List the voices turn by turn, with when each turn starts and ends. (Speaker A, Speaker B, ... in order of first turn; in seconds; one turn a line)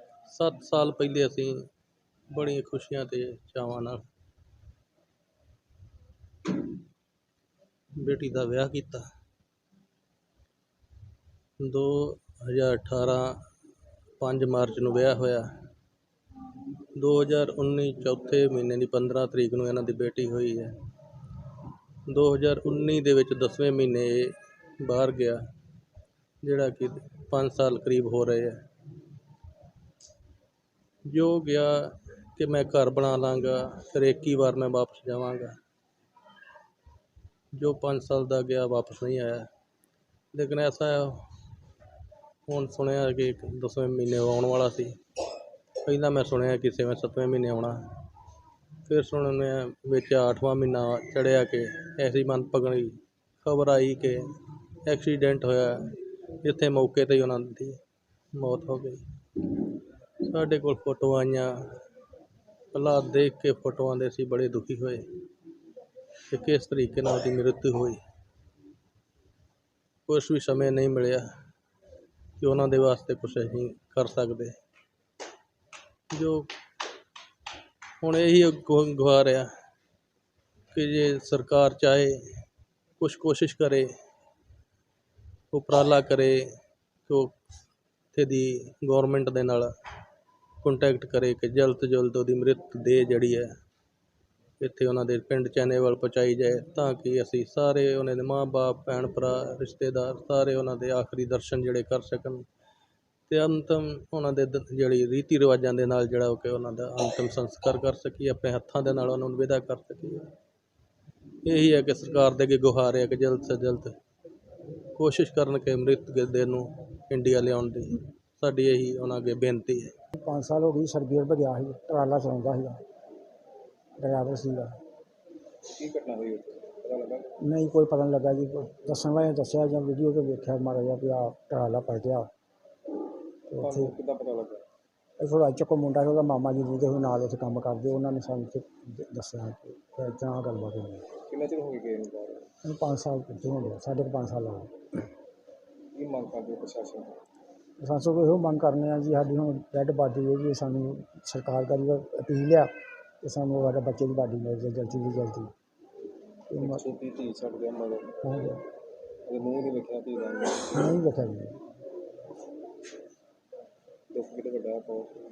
Speaker A: 0.3-1.6
Speaker A: 2.3-4.0
Speaker A: 8.0-9.1
Speaker A: 11.6-13.4
Speaker A: 14.2-15.5
Speaker A: 16.9-20.7
Speaker A: 22.1-25.4
Speaker A: 26.4-28.6
Speaker A: 31.1-35.5
Speaker A: 37.5-39.5
Speaker A: 40.3-41.2
Speaker A: 42.5-45.0
Speaker A: 45.8-47.8
Speaker A: 48.9-54.3
Speaker A: 54.8-57.8
Speaker A: 58.3-59.0
Speaker A: 60.2-61.6
Speaker A: 62.7-65.0
Speaker A: 66.3-68.0
Speaker A: 70.1-71.3
Speaker A: 72.4-74.5
Speaker A: 76.1-76.5
Speaker A: 78.0-79.5
Speaker A: 80.7-82.2
Speaker A: 83.0-83.9
Speaker A: 85.5-86.5
Speaker A: 87.1-87.3
Speaker A: 88.1-89.7
Speaker A: 90.6-93.5
Speaker A: 94.6-102.4
Speaker A: 103.3-110.3
Speaker A: 111.4-114.0
Speaker A: 114.9-119.9
Speaker B: 120.2-122.8
Speaker B: 124.0-124.8
Speaker C: 125.7-127.3
Speaker B: 127.4-132.3
Speaker B: 133.5-133.9
Speaker C: 133.6-134.6
Speaker B: 135.2-141.0
Speaker C: 141.3-142.5
Speaker B: 142.6-144.7
Speaker C: 145.9-147.1
Speaker B: 147.8-155.5
Speaker B: 156.5-156.9
Speaker C: 156.6-158.1
Speaker B: 158.2-158.6
Speaker C: 159.3-160.9
Speaker B: 160.7-161.6
Speaker C: 164.1-165.1